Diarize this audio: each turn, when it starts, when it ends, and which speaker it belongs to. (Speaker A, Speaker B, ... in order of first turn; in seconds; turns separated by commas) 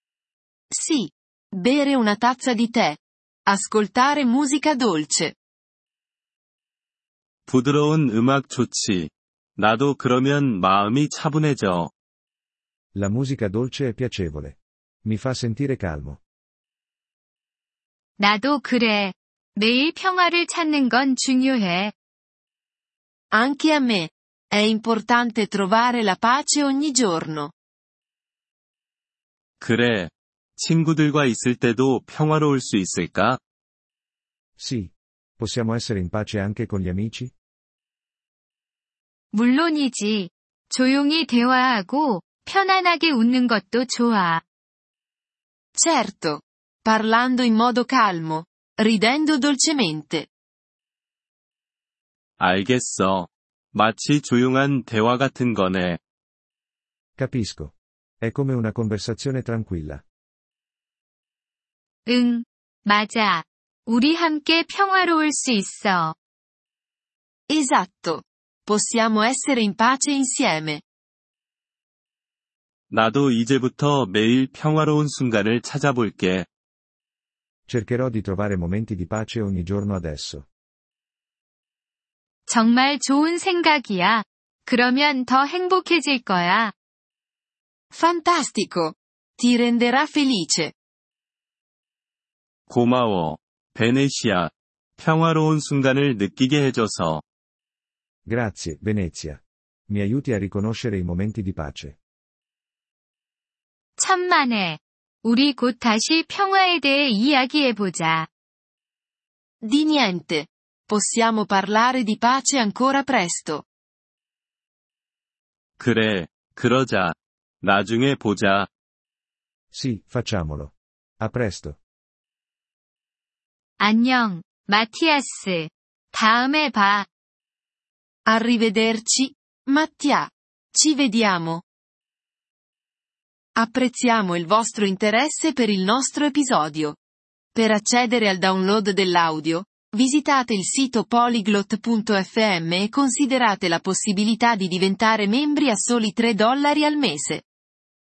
Speaker A: 0.7-5.3, Speaker B: 7.5-11.9, Speaker C: 12.9-16.2, Speaker D: 18.2-21.9, Speaker A: 23.3-27.5, Speaker B: 29.6-33.4, Speaker C: 34.6-37.3, Speaker D: 39.3-44.4, Speaker A: 45.8-50.3, Speaker B: 52.4-56.0, Speaker C: 57.2-60.0, Speaker D: 62.1-66.2, Speaker A: 67.5-70.8, Speaker B: 72.9-76.5, Speaker C: 77.7-80.5, Speaker D: 82.5-86.7, Speaker A: 87.9-90.7, Speaker B: 92.7-97.2, Speaker C: 98.3-102.0, Speaker D: 104.0-108.3, Speaker A: 109.6-113.7, Speaker B: 115.8-118.7, Speaker C: 119.7-121.8, Speaker D: 123.8-127.1, Speaker A: 128.3-131.6, Speaker A: 133.6-137.0, Speaker A: 137.6-147.4